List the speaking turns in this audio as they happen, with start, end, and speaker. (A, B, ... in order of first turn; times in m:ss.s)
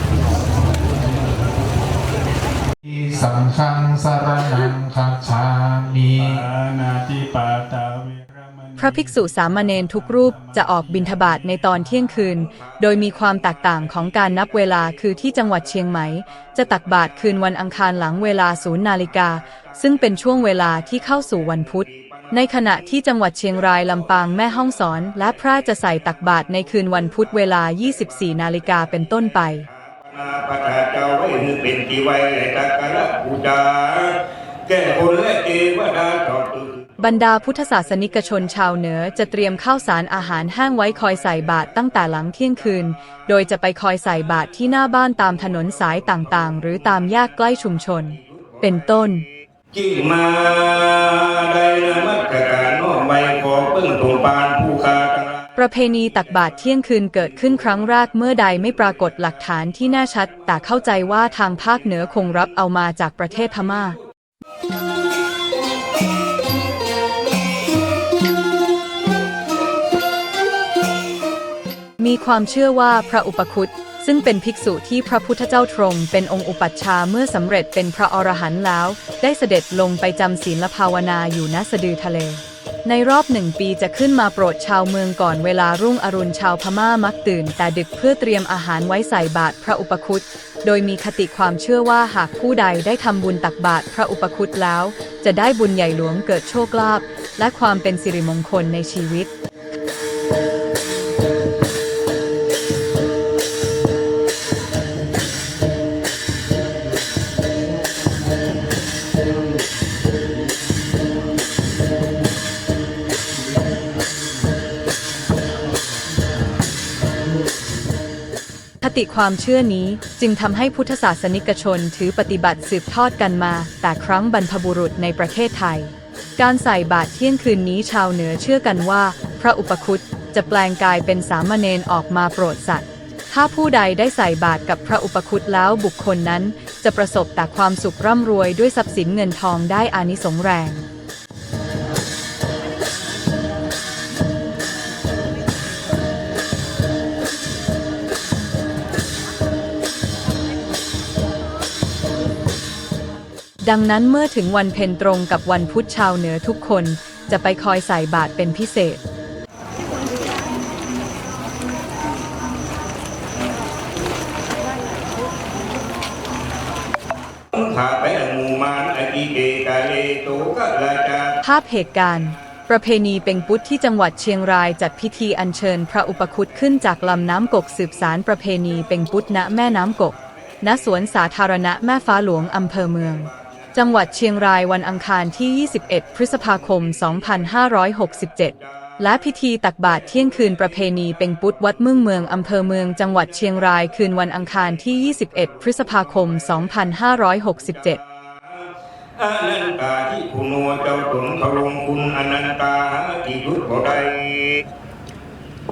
0:02.8-0:06.5 A
0:06.2-0:09.2 B
0:08.8-0:29.6 C
0:09.8-0:12.0 B
0:21.9-0:22.3 D
0:29.7-0:36.9 D
0:37.0-0:49.2 C
0:49.7-0:55.5 D
0:55.6-1:04.0 C
1:12.0-1:39.3 C
1:58.8-2:20.8 C
2:33.6-2:39.0 C
2:47.5-2:51.4 D
2:51.4-3:18.0 C
3:19.2-3:24.6 D